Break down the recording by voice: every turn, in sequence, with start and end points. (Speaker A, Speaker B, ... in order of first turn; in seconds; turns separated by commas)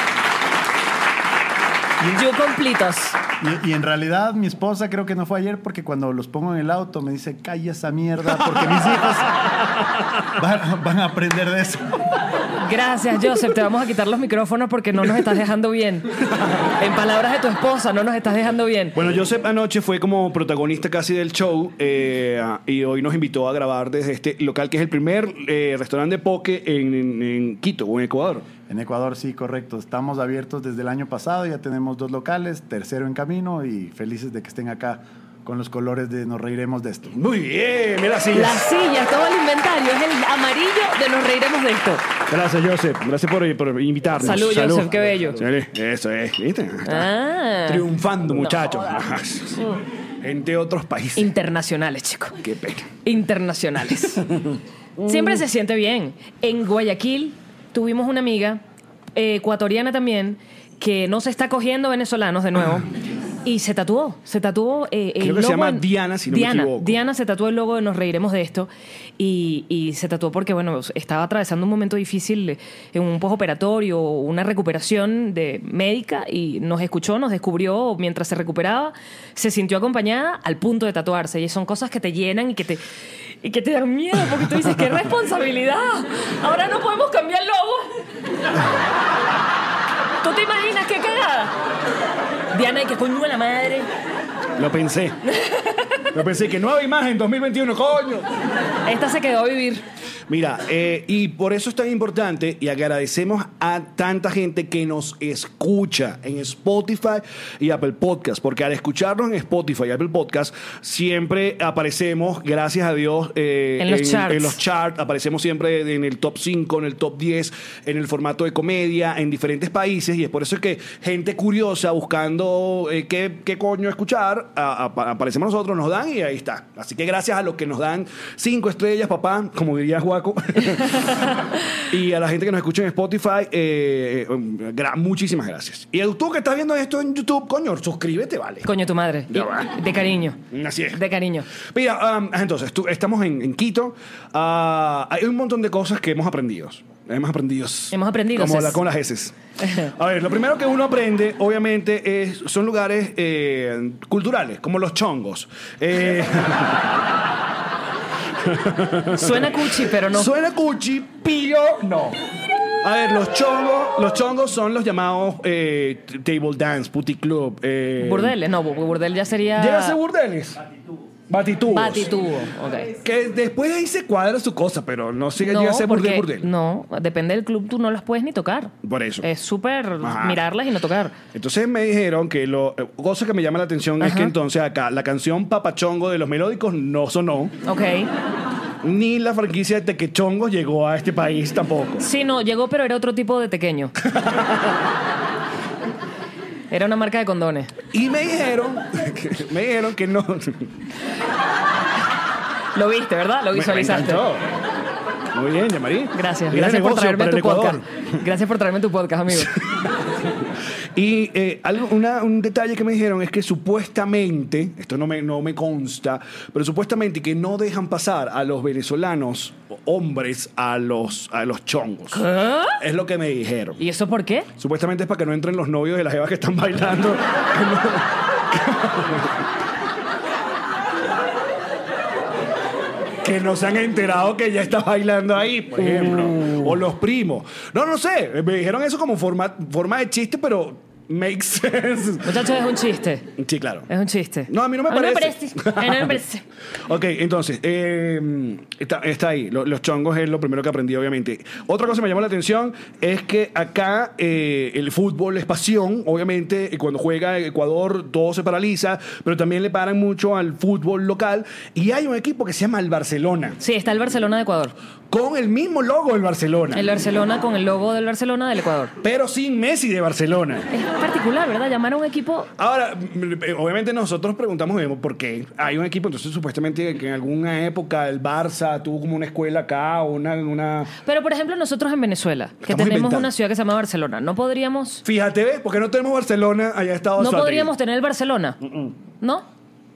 Speaker A: 2.0-3.2, Speaker B: 3.4-9.5, Speaker B: 10.3-11.9, Speaker A: 12.6-16.1, Speaker A: 16.8-19.0, Speaker C: 18.9-28.5, Speaker B: 28.7-37.1, Speaker C: 37.1-38.7, Speaker A: 38.3-42.1, Speaker C: 42.3-47.1, Speaker A: 44.2-45.4, Speaker A: 46.8-47.9, Speaker C: 47.6-51.3, Speaker A: 48.4-49.0, Speaker A: 51.1-52.4, Speaker C: 52.4-52.9, Speaker A: 53.0-54.2, Speaker A: 55.0-58.6, Speaker A: 59.1-62.9, Speaker A: 63.4-82.8, Speaker C: 65.2-67.0, Speaker A: 83.4-87.9, Speaker A: 90.2-91.5, Speaker A: 92.5-93.9, Speaker C: 94.6-95.2, Speaker A: 95.3-96.0, Speaker C: 96.1-98.3, Speaker A: 98.8-99.8, Speaker C: 100.3-138.7, Speaker A: 113.8-114.6, Speaker A: 138.6-140.4, Speaker C: 139.3-139.8, Speaker C: 140.5-141.0, Speaker A: 140.9-141.5, Speaker C: 141.6-156.9, Speaker A: 147.9-148.8, Speaker C: 158.4-159.6, Speaker A: 159.1-160.3, Speaker C: 160.1-162.2, Speaker C: 162.8-168.3, Speaker A: 168.0-170.0, Speaker C: 169.6-170.6, Speaker C: 171.3-172.1, Speaker A: 171.7-172.9, Speaker C: 173.0-176.5, Speaker A: 175.4-181.2, Speaker C: 178.8-179.2, Speaker C: 180.0-180.4, Speaker C: 181.3-187.5, Speaker A: 184.0-184.3, Speaker A: 187.7-188.1, Speaker C: 188.8-192.1, Speaker A: 192.0-193.9, Speaker C: 194.0-194.7, Speaker A: 196.7-197.7, Speaker C: 197.9-200.7, Speaker A: 202.7-204.2, Speaker C: 203.5-204.4, Speaker C: 205.3-207.8, Speaker A: 206.1-209.5, Speaker C: 209.6-209.9, Speaker C: 210.9-222.2, Speaker A: 222.1-222.8, Speaker C: 222.8-223.8, Speaker A: 223.8-224.5, Speaker C: 224.6-229.3, Speaker C: 233.2-242.3, Speaker A: 242.2-243.3, Speaker C: 243.4-243.9, Speaker A: 243.9-246.4, Speaker C: 244.5-246.2, Speaker C: 246.8-263.6, Speaker A: 263.6-264.7, Speaker C: 265.1-266.9, Speaker A: 266.7-268.9, Speaker C: 269.0-270.7, Speaker A: 270.7-272.5, Speaker C: 272.6-280.9, Speaker A: 281.0-285.0, Speaker C: 282.6-283.3, Speaker C: 285.0-287.7, Speaker A: 287.2-288.6, Speaker C: 288.6-288.9